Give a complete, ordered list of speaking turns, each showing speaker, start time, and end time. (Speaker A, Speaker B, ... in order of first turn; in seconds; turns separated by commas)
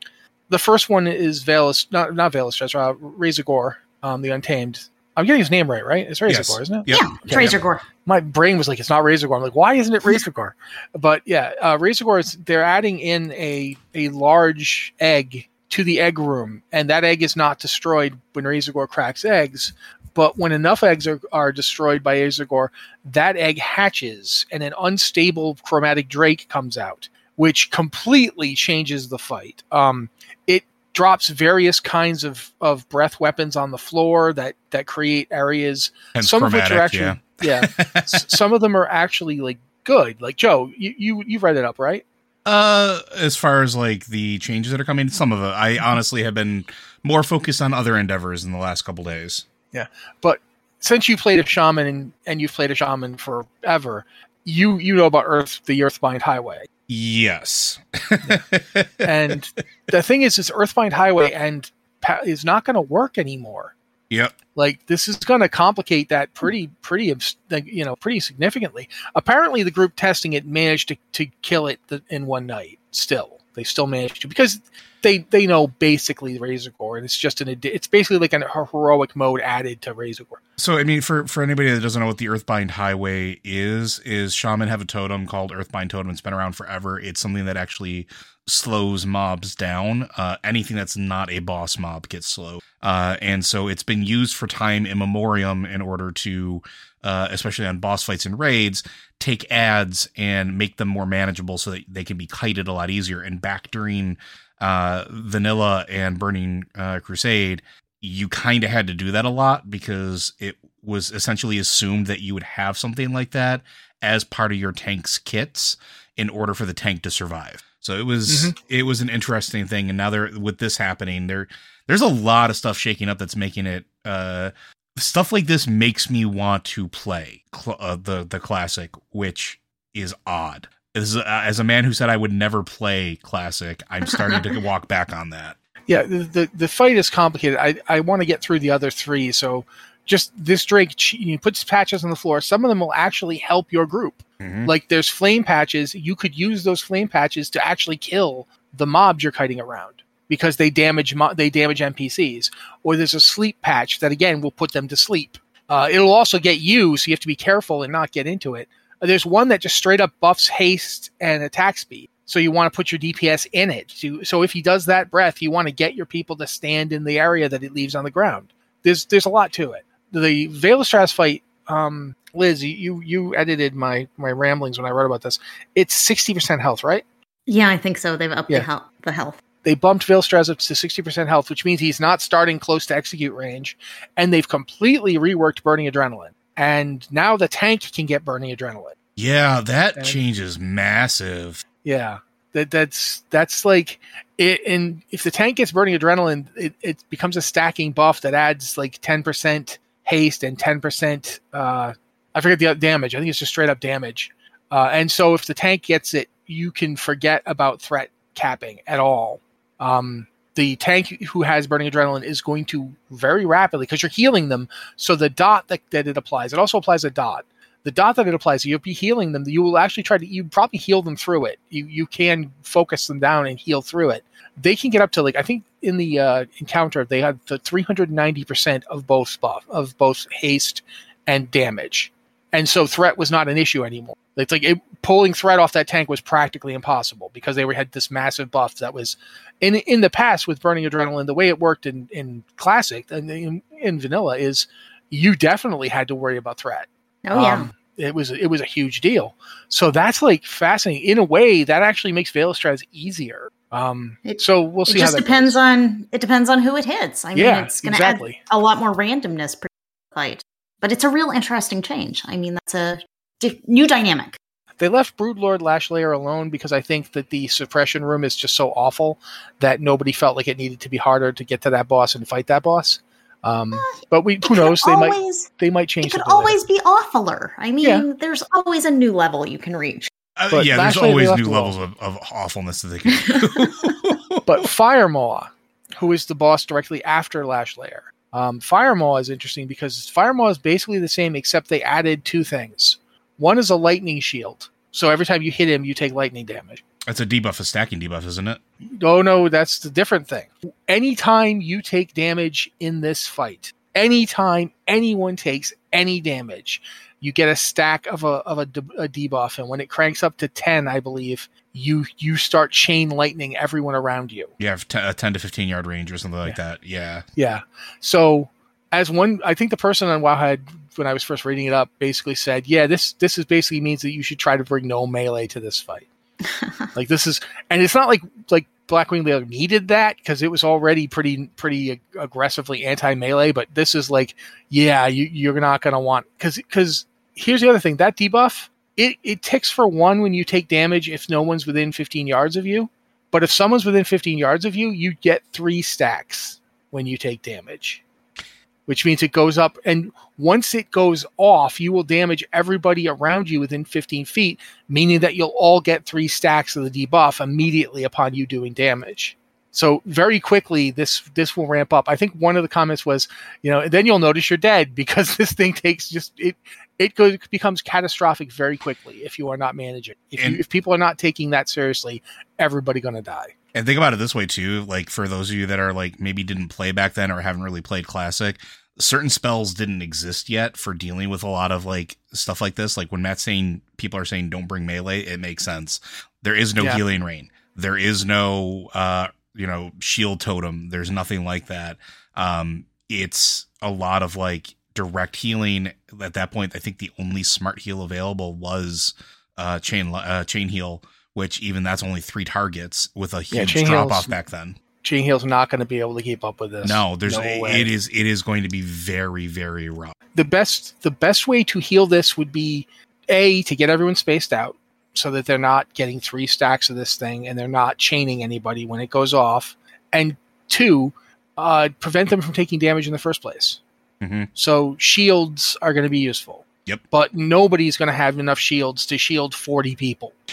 Speaker A: 0.5-42.0, Speaker B: 6.3-7.1, Speaker C: 6.9-7.8, Speaker B: 36.1-38.4, Speaker B: 42.4-49.4, Speaker A: 49.7-56.7, Speaker B: 56.9-59.1, Speaker A: 59.0-63.7, Speaker B: 64.1-64.3, Speaker A: 64.5-80.4, Speaker B: 80.6-135.6, Speaker A: 118.3-118.5, Speaker A: 135.9-177.0, Speaker B: 144.4-144.7, Speaker C: 177.5-179.4, Speaker A: 179.6-188.9, Speaker B: 189.2-191.6, Speaker A: 191.8-255.6, Speaker C: 247.2-247.7, Speaker C: 254.2-264.4, Speaker A: 257.3-258.4, Speaker A: 264.8-276.6, Speaker C: 273.7-275.5, Speaker C: 276.0-280.1, Speaker B: 280.4-284.6, Speaker A: 280.5-281.8, Speaker A: 284.4-296.8, Speaker B: 297.1-298.6, Speaker A: 298.9-314.5, Speaker B: 314.6-317.2, Speaker A: 317.4-326.1, Speaker C: 326.5-326.8, Speaker A: 326.9-348.0, Speaker A: 348.9-373.5, Speaker B: 373.7-404.8, Speaker A: 403.5-404.3, Speaker A: 405.0-407.9, Speaker B: 406.8-410.1, Speaker A: 410.3-423.8, Speaker B: 424.2-424.5, Speaker A: 424.6-430.3